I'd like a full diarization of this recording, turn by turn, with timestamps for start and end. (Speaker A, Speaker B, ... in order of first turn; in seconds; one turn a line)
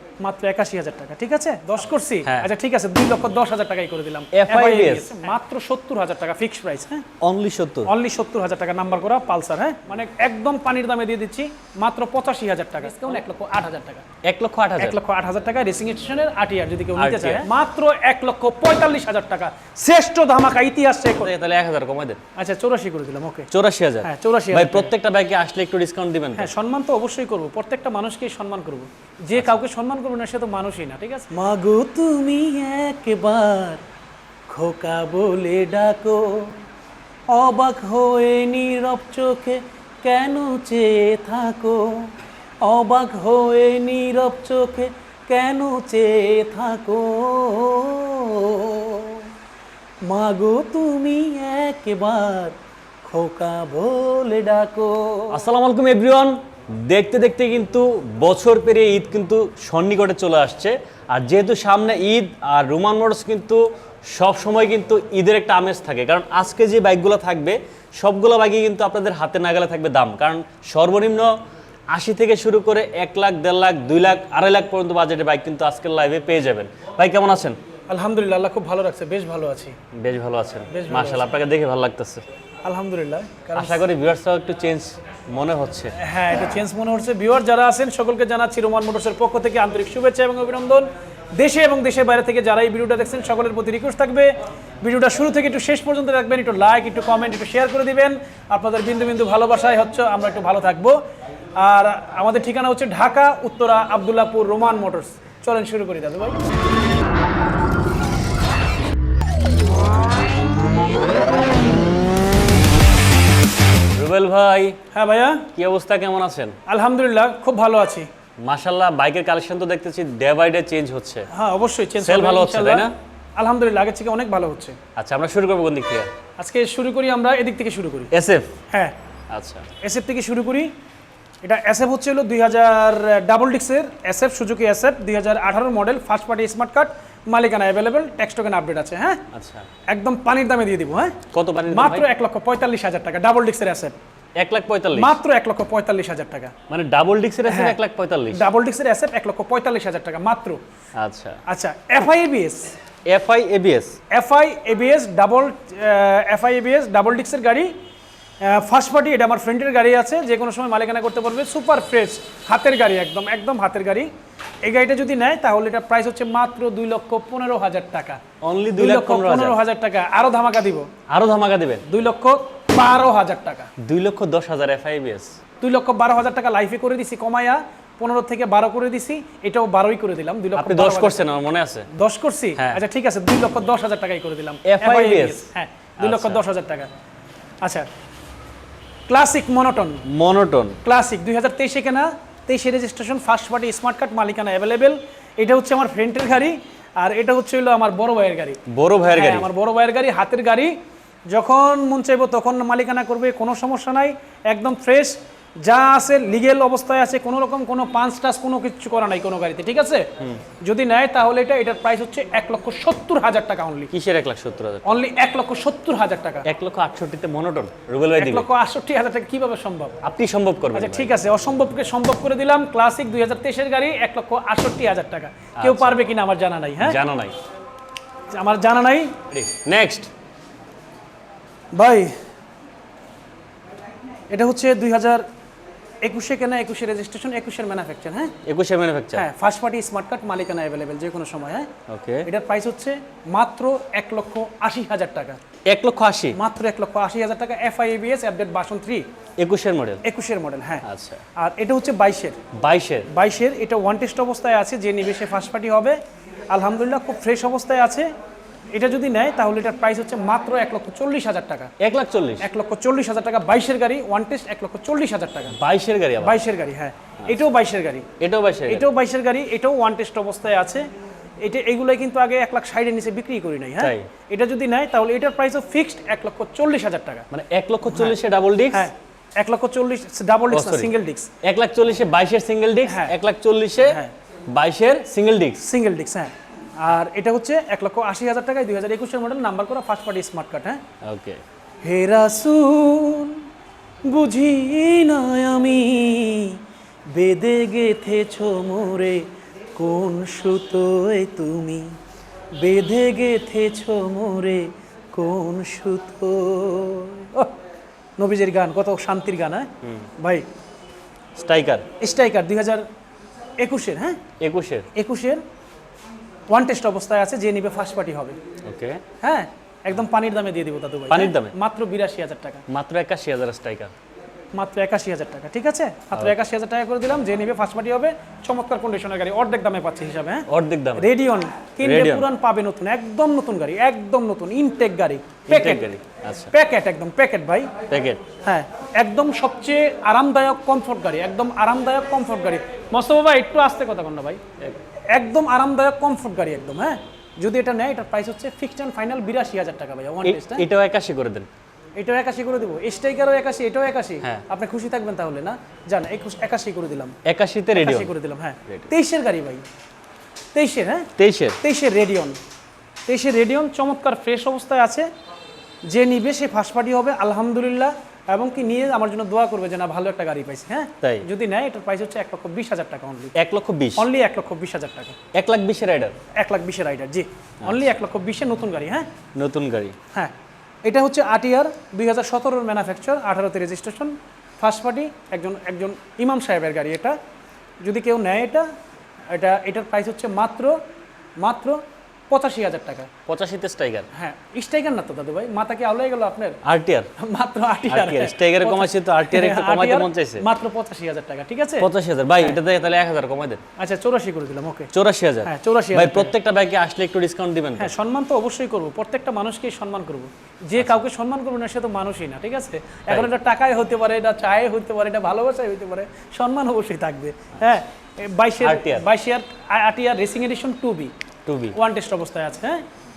Speaker A: 0.2-7.0
Speaker B: 2.2-2.5
Speaker B: 4.3-5.1
Speaker B: 7.2-7.9
Speaker A: 7.8-14.1
Speaker B: 14.2-15.0
Speaker A: 14.8-21.3
Speaker B: 17.0-17.5
Speaker B: 21.1-22.2
Speaker A: 22.4-23.5
Speaker B: 23.5-26.5
Speaker A: 24.0-24.9
Speaker A: 26.4-33.8
Speaker B: 29.3-29.6
Speaker A: 34.5-36.5
Speaker A: 37.3-42.0
Speaker A: 42.6-49.2
Speaker A: 50.1-52.5
Speaker A: 53.0-55.4
Speaker B: 55.3-71.3
Speaker B: 71.9-77.5
Speaker A: 77.9-79.8
Speaker B: 79.9-82.2
Speaker A: 80.7-81.3
Speaker A: 82.6-83.8
Speaker B: 83.5-85.9
Speaker A: 86.0-101.0
Speaker A: 101.6-106.4
Speaker B: 113.9-114.8
Speaker A: 114.9-115.5
Speaker B: 115.5-116.5
Speaker A: 116.7-118.1
Speaker B: 118.4-121.3
Speaker A: 121.3-124.8
Speaker B: 122.0-122.9
Speaker B: 125.0-126.1
Speaker A: 126.4-128.1
Speaker B: 128.1-128.5
Speaker A: 128.7-128.9
Speaker B: 129.3-129.7
Speaker A: 129.8-130.7
Speaker A: 131.4-139.2
Speaker B: 139.3-139.7
Speaker A: 139.9-143.9
Speaker B: 141.3-142.1
Speaker B: 144.3-145.2
Speaker A: 144.9-146.5
Speaker B: 146.7-148.5
Speaker A: 147.5-147.8
Speaker A: 148.3-150.6
Speaker B: 150.9-151.4
Speaker A: 151.5-152.7
Speaker B: 153.1-154.0
Speaker A: 154.1-157.7
Speaker A: 158.4-164.1
Speaker A: 164.6-168.2
Speaker B: 168.4-169.6
Speaker A: 168.8-170.9
Speaker B: 171.1-171.8
Speaker A: 171.8-173.7
Speaker B: 173.8-175.3
Speaker A: 175.6-181.2
Speaker B: 180.5-181.9
Speaker A: 181.9-186.9
Speaker B: 182.6-182.8
Speaker B: 184.6-185.5
Speaker B: 186.0-186.4
Speaker A: 189.1-190.0
Speaker B: 190.1-190.8
Speaker A: 190.8-198.6
Speaker B: 198.7-199.5
Speaker A: 199.1-200.7
Speaker A: 201.3-210.1
Speaker A: 210.6-213.9
Speaker B: 213.9-215.0
Speaker A: 214.8-216.5
Speaker B: 216.4-218.5
Speaker A: 218.2-220.0
Speaker B: 220.0-221.2
Speaker A: 220.7-227.0
Speaker B: 225.6-226.0
Speaker B: 226.8-227.3
Speaker A: 228.3-229.2
Speaker B: 229.3-230.1
Speaker A: 231.7-232.1
Speaker A: 234.3-235.2
Speaker A: 236.0-238.3
Speaker B: 238.4-239.3
Speaker A: 239.1-241.7
Speaker B: 241.9-242.3
Speaker A: 242.2-245.4
Speaker B: 245.7-246.4
Speaker A: 246.3-249.1
Speaker B: 249.4-250.0
Speaker A: 250.0-250.8
Speaker B: 250.8-251.2
Speaker A: 251.4-252.4
Speaker B: 252.5-253.1
Speaker A: 253.1-256.0
Speaker A: 256.5-258.1
Speaker A: 258.7-261.7
Speaker B: 261.8-262.5
Speaker A: 262.4-265.6
Speaker B: 265.5-266.4
Speaker A: 266.2-268.1
Speaker B: 268.2-268.9
Speaker A: 268.7-270.9
Speaker A: 271.4-277.3
Speaker B: 273.8-274.1
Speaker B: 277.3-278.9
Speaker A: 277.8-278.1
Speaker A: 278.7-281.3
Speaker B: 280.5-284.0
Speaker A: 282.9-283.1
Speaker A: 283.8-284.1
Speaker B: 284.5-285.6
Speaker A: 285.6-290.8
Speaker B: 291.0-291.4
Speaker A: 291.8-293.4
Speaker A: 294.1-296.6
Speaker A: 297.1-299.2
Speaker A: 299.8-301.9
Speaker A: 302.6-307.5
Speaker A: 308.2-310.4
Speaker B: 311.4-311.9
Speaker A: 312.0-312.8
Speaker A: 313.6-314.2
Speaker B: 314.4-314.9
Speaker A: 314.9-315.4
Speaker A: 316.5-318.4
Speaker B: 318.6-319.0
Speaker A: 319.2-322.6
Speaker B: 321.1-321.5
Speaker B: 322.7-323.9
Speaker A: 324.5-335.9
Speaker B: 330.5-331.1
Speaker B: 331.8-332.3
Speaker B: 335.5-336.5
Speaker A: 336.5-337.7
Speaker B: 337.9-338.2
Speaker A: 338.4-344.4
Speaker A: 345.1-350.6
Speaker B: 350.2-351.5
Speaker A: 352.0-357.1
Speaker B: 357.2-358.1
Speaker A: 357.7-359.6
Speaker A: 360.5-361.1
Speaker B: 361.2-361.6
Speaker A: 361.6-362.4
Speaker A: 363.1-365.1
Speaker A: 365.9-373.3
Speaker B: 373.4-374.1
Speaker A: 374.0-375.1
Speaker B: 375.3-376.1
Speaker A: 376.4-379.1
Speaker B: 377.6-377.9
Speaker B: 379.4-379.9
Speaker A: 380.8-387.1
Speaker A: 387.8-388.6
Speaker A: 389.3-390.8
Speaker A: 391.4-393.1
Speaker B: 393.2-394.1
Speaker A: 394.1-396.6
Speaker B: 396.6-397.1
Speaker A: 397.2-401.9
Speaker B: 397.9-400.4
Speaker B: 401.8-403.6
Speaker A: 403.8-404.9
Speaker B: 404.9-407.9
Speaker A: 405.4-406.3
Speaker A: 407.8-421.1
Speaker B: 410.8-411.0
Speaker B: 418.6-419.1
Speaker B: 421.4-421.8
Speaker A: 421.7-422.8